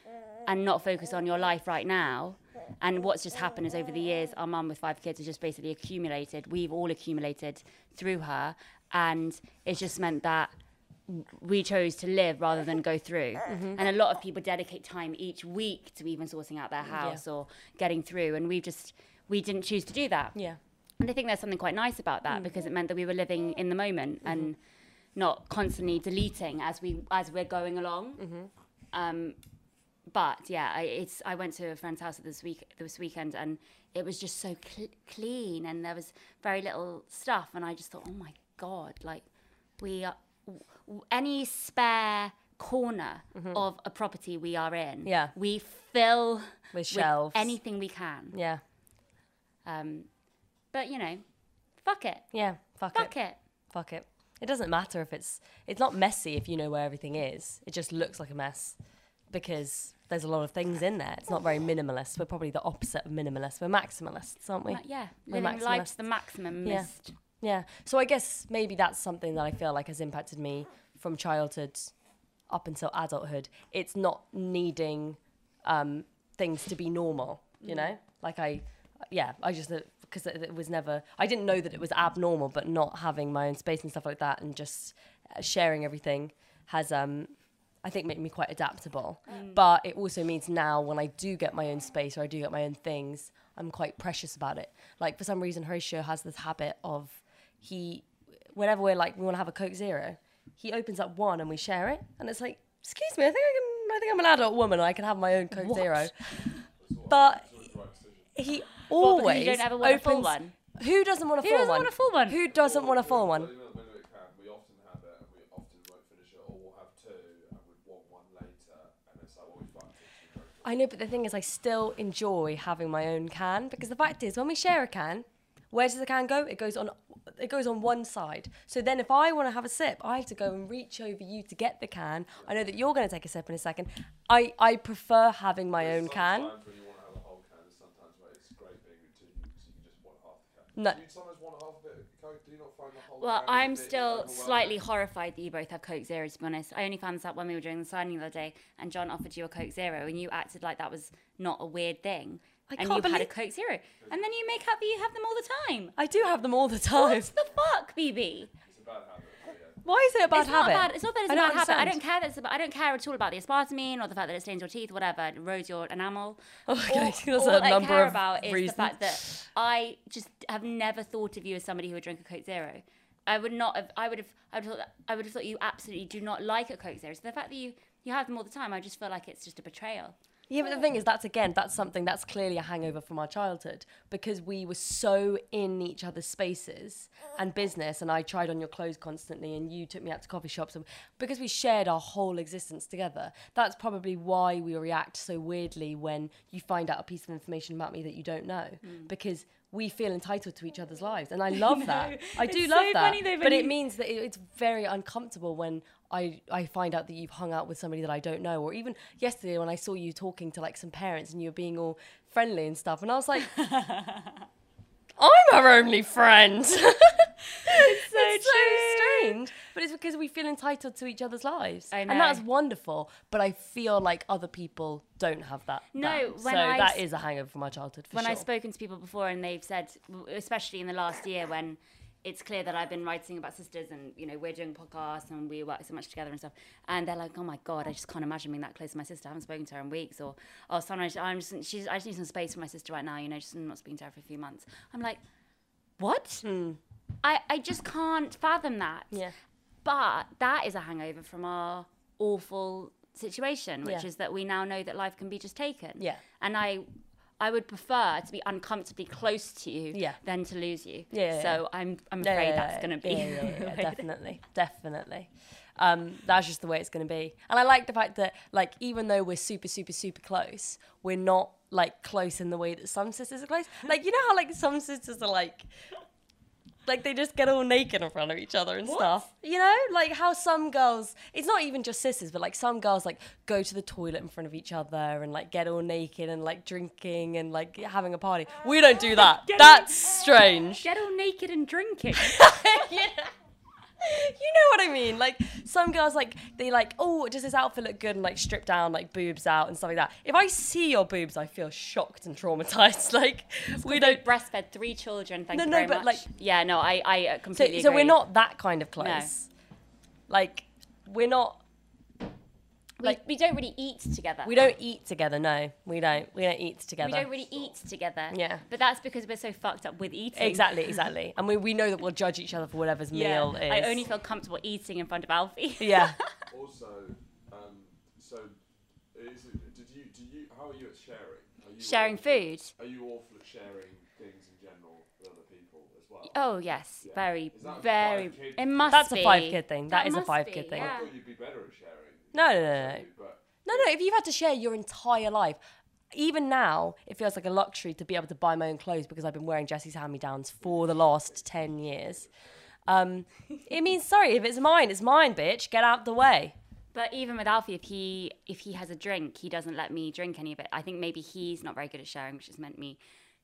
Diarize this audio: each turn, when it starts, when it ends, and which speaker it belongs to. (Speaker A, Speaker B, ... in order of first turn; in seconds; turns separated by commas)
Speaker A: 0.4-10.5, Speaker A: 11.1-20.4, Speaker B: 13.5-13.8, Speaker B: 16.9-17.2, Speaker A: 21.0-24.6, Speaker A: 25.1-28.2, Speaker B: 28.2-28.5, Speaker A: 28.9-29.4, Speaker A: 30.1-39.2, Speaker A: 39.8-48.4, Speaker B: 43.3-43.6, Speaker B: 45.0-45.3, Speaker B: 46.7-47.6, Speaker B: 48.3-48.6, Speaker A: 49.6-50.1, Speaker A: 50.7-51.2, Speaker A: 51.8-52.3, Speaker B: 52.3-53.1, Speaker A: 52.9-53.4, Speaker B: 53.7-72.0, Speaker A: 64.7-67.1, Speaker B: 72.5-106.3, Speaker A: 77.6-77.9, Speaker A: 89.3-89.6, Speaker A: 105.5-106.6, Speaker C: 106.7-108.4, Speaker B: 107.1-107.5, Speaker B: 108.3-113.5, Speaker A: 109.0-110.5, Speaker A: 111.4-112.4, Speaker C: 112.4-120.7, Speaker B: 120.6-136.5, Speaker C: 135.8-144.8, Speaker B: 140.7-141.0, Speaker A: 143.2-155.9, Speaker B: 152.7-153.3, Speaker C: 154.0-154.6, Speaker B: 155.9-157.3, Speaker A: 156.9-158.5, Speaker C: 158.6-159.8, Speaker B: 159.8-162.0, Speaker A: 160.3-180.2, Speaker B: 166.7-169.4, Speaker B: 180.5-213.5, Speaker A: 198.8-199.1, Speaker A: 201.5-203.8, Speaker A: 213.5-214.4, Speaker B: 215.2-228.4, Speaker A: 217.5-219.4, Speaker A: 221.9-222.4, Speaker A: 225.9-227.0, Speaker A: 228.1-245.2, Speaker A: 246.0-246.4, Speaker B: 246.4-246.8, Speaker A: 247.2-249.2, Speaker A: 249.8-256.9, Speaker A: 257.4-264.0, Speaker B: 259.9-260.2, Speaker B: 261.1-261.6, Speaker B: 262.2-275.7, Speaker B: 276.9-290.9, Speaker A: 278.9-279.3, Speaker A: 289.1-292.9, Speaker B: 292.2-293.3, Speaker B: 294.0-304.2, Speaker A: 303.7-308.2, Speaker B: 305.5-306.2, Speaker B: 307.5-309.5, Speaker A: 309.0-309.3, Speaker B: 310.3-311.6, Speaker A: 313.0-314.6, Speaker B: 314.4-317.3, Speaker A: 317.0-321.0, Speaker C: 317.4-317.7, Speaker B: 318.3-318.6, Speaker B: 320.3-324.0, Speaker A: 323.1-326.3, Speaker B: 325.8-326.2, Speaker C: 326.5-328.6, Speaker C: 329.1-336.4, Speaker A: 331.8-332.7, Speaker A: 336.3-341.1, Speaker C: 337.0-339.1, Speaker B: 338.9-340.9, Speaker C: 340.7-343.9, Speaker B: 342.3-343.1, Speaker B: 343.6-345.6, Speaker B: 346.1-352.2, Speaker C: 350.6-352.5, Speaker B: 352.9-356.6, Speaker A: 356.9-363.0